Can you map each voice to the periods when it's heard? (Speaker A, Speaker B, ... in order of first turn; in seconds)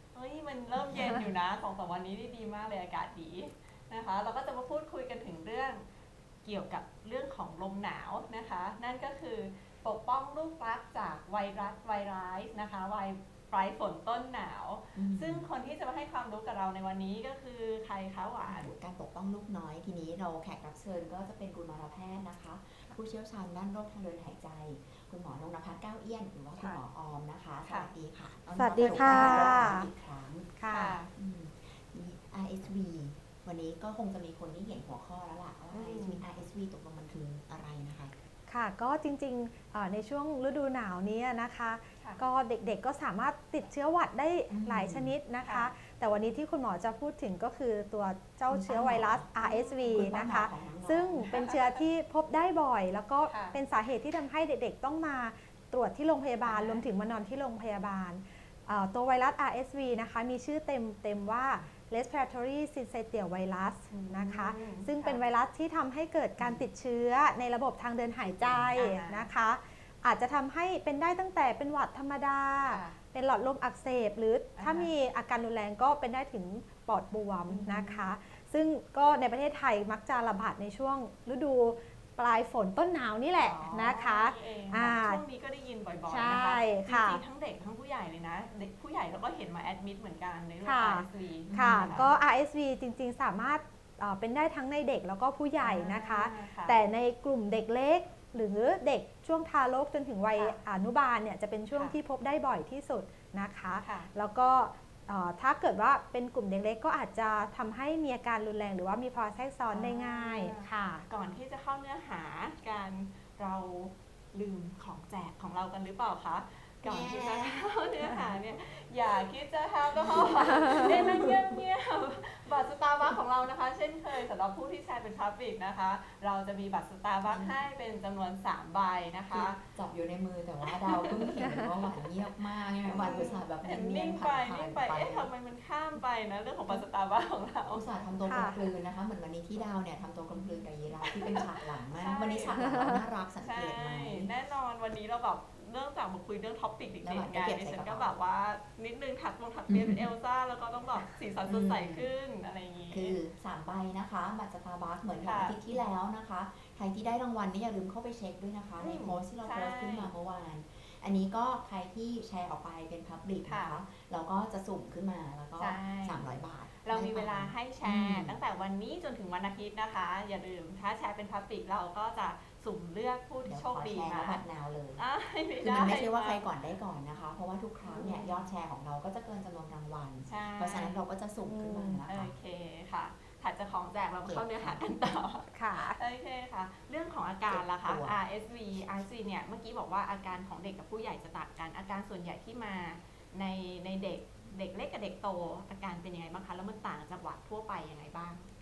Speaker A: 0.1-5.8, 6.4-18.7, 27.6-27.9, 28.8-29.7, 30.7-31.1, 35.7-36.2, 45.4-45.7, 49.4-50.0, 51.3-51.6, 53.3-53.6, 56.4-56.8, 63.9-65.2, 68.8-69.3, 72.7-73.0, 74.6-74.9, 77.5-78.0, 83.4-92.1, 95.6-96.8, 103.8-104.1, 109.7-129.6, 130.6-131.9, 132.8-137.9, 140.3-142.9, 143.4-153.2, 155.2-155.6, 158.8-160.1, 163.5-163.7, 165.6-166.3, 166.8-174.4, 175.0-176.4, 177.8-178.4, 180.3-181.0, 182.1-198.5
Speaker B: 14.9-15.5, 18.4-30.5, 31.1-38.1, 44.5-45.1, 48.5-49.3, 49.9-51.3, 66.4-66.6, 68.4-68.7, 91.5-92.1, 116.8-118.3, 119.9-121.6, 127.2-127.6, 129.3-135.3, 137.7-144.3, 147.0-148.2, 149.7-150.1, 151.4-152.1, 152.9-168.4, 173.4-175.0, 175.6-182.3, 184.2-185.0, 187.5-188.2
Speaker C: 28.6-29.9, 30.6-31.0, 38.5-85.2, 86.1-87.2, 90.6-111.1, 138.3-138.6, 142.6-142.9, 181.4-182.0, 185.5-186.0